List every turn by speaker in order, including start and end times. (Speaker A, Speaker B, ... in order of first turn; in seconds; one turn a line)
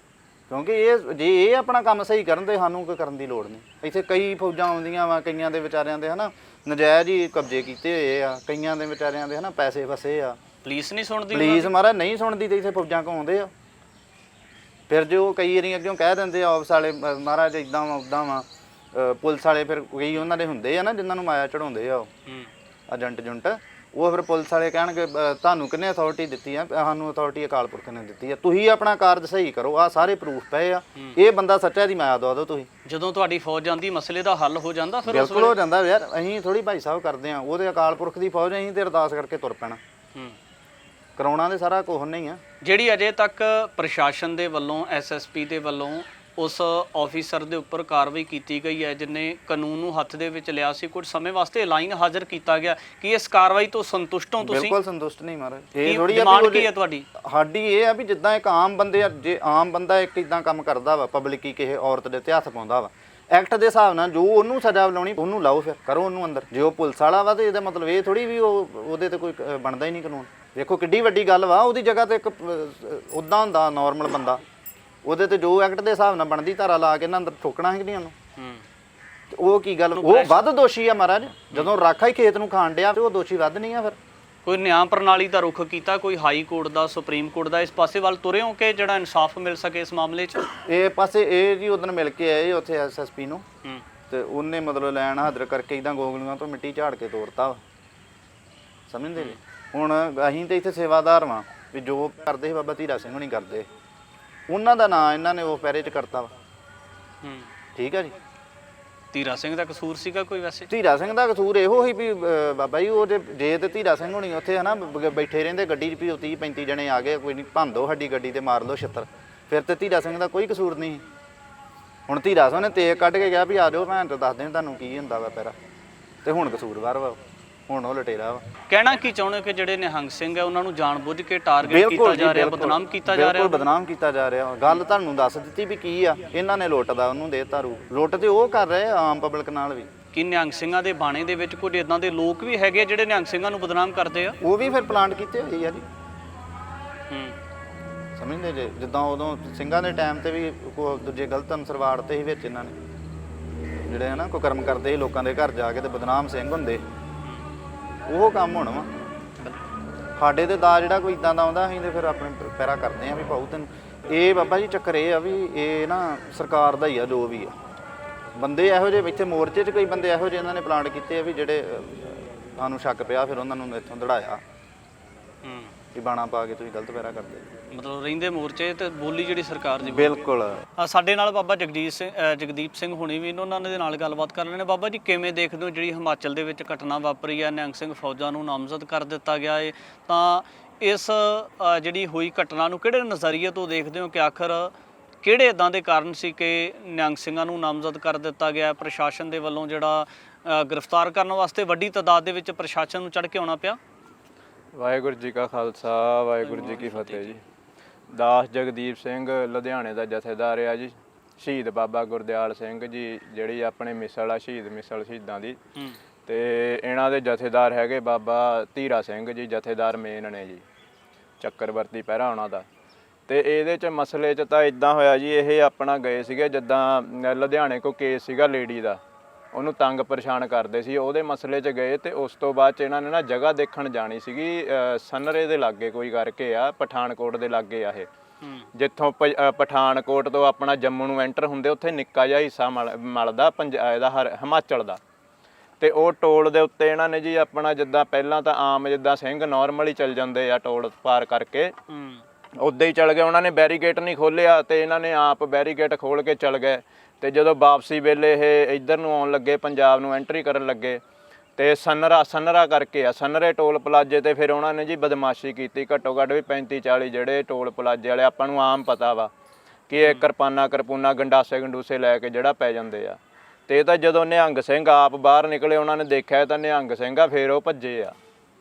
Speaker A: 0.5-10.4
Speaker B: 10.6-11.7
Speaker A: 11.3-13.5
Speaker A: 14.9-22.1
Speaker A: 22.9-32.7
Speaker B: 32.8-35.6
Speaker A: 35.1-39.8
Speaker A: 41.2-42.4
Speaker B: 42.6-54.7
Speaker A: 54.4-56.7
Speaker B: 55.8-57.0
Speaker A: 57.2-74.4
Speaker A: 75.0-78.1
Speaker B: 78.4-78.6
Speaker A: 79.3-84.0
Speaker B: 79.9-80.4
Speaker B: 84.5-90.4
Speaker A: 90.7-93.4
Speaker A: 94.1-97.6
Speaker A: 98.9-103.7
Speaker A: 104.5-106.3
Speaker B: 107.2-107.5
Speaker A: 107.8-108.1
Speaker B: 109.1-110.7
Speaker A: 110.7-121.0
Speaker A: 122.1-125.5
Speaker A: 126.2-128.4
Speaker B: 128.7-133.6
Speaker A: 131.6-139.9
Speaker B: 140.1-144.4
Speaker A: 144.4-145.8
Speaker B: 147.1-147.4
Speaker A: 148.2-152.7
Speaker A: 153.9-156.8
Speaker A: 158.1-158.9
Speaker A: 160.2-167.5
Speaker A: 168.4-174.4
Speaker B: 175.4-175.7
Speaker A: 175.9-177.4
Speaker B: 177.7-180.2
Speaker A: 179.8-180.6
Speaker B: 180.8-203.8
Speaker C: 204.7-207.4
Speaker B: 206.4-207.3
Speaker C: 208.1-215.6
Speaker C: 216.2-220.6
Speaker C: 221.4-222.7
Speaker C: 223.3-229.0
Speaker C: 229.5-238.1
Speaker B: 238.4-238.7
Speaker C: 238.7-245.0
Speaker C: 245.8-251.7
Speaker B: 251.9-252.2
Speaker C: 252.6-261.0
Speaker C: 261.6-269.3
Speaker C: 269.9-278.1